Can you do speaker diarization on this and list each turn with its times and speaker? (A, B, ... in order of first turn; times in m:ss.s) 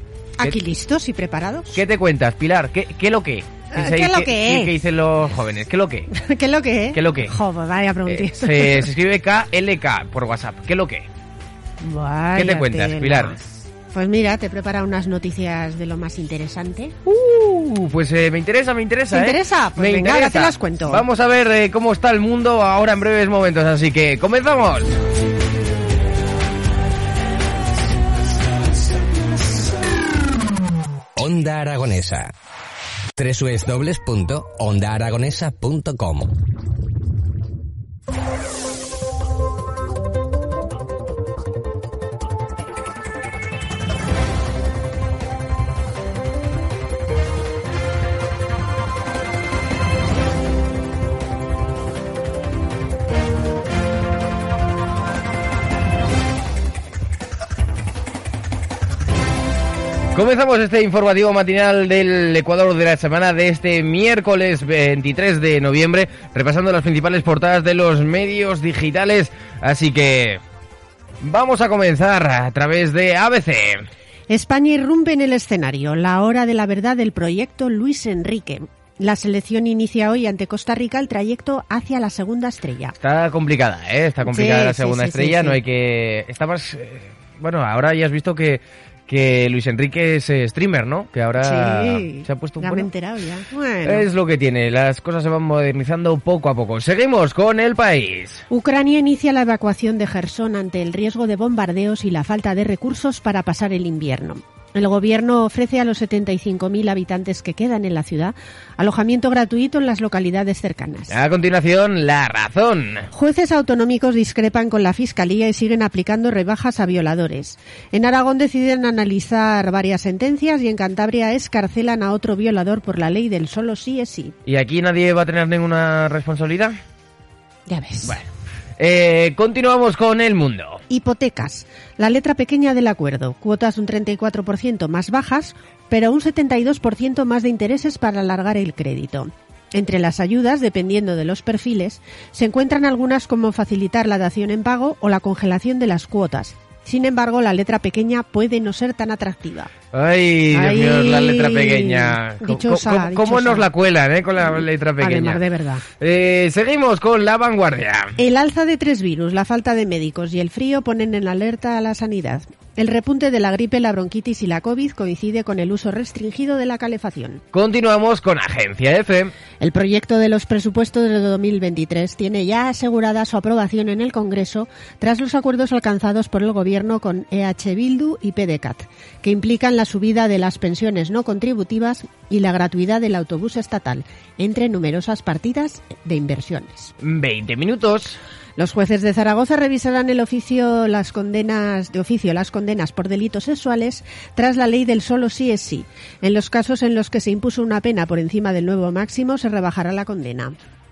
0:00.4-0:01.8 A
0:01.7-0:06.1 B
0:03.7-0:04.7 A
0:06.1-0:08.9 A
0:06.9-0:07.3 B
0:08.1-0:11.1 B
0:11.8-0:17.0 A
0:12.4-0:13.4 B
0:17.1-0:25.0 B
0:19.1-0:21.0 A
0:31.2-0:32.3 C
0:33.2-0:36.3 C
1:00.1-1:10.4 B
1:11.2-1:13.9 B
1:14.3-1:23.0 A
1:23.0-1:32.9 B
1:24.2-1:25.6 A
1:31.4-1:34.1 A
1:33.8-1:38.4 B
1:38.5-1:51.2 A
1:51.1-1:53.1 B
1:53.1-2:04.4 A
2:04.5-2:06.8 B
2:07.7-2:08.2 A
2:08.8-2:10.8 B
2:10.9-2:29.7 A
2:29.9-2:35.4 B
2:30.5-2:33.7 A
2:34.4-2:35.8 A
2:36.0-2:38.2 B
2:38.2-2:47.4 A
2:47.5-2:49.3 B
2:49.6-3:06.9 A
3:07.0-3:08.2 B
3:08.6-3:20.6 A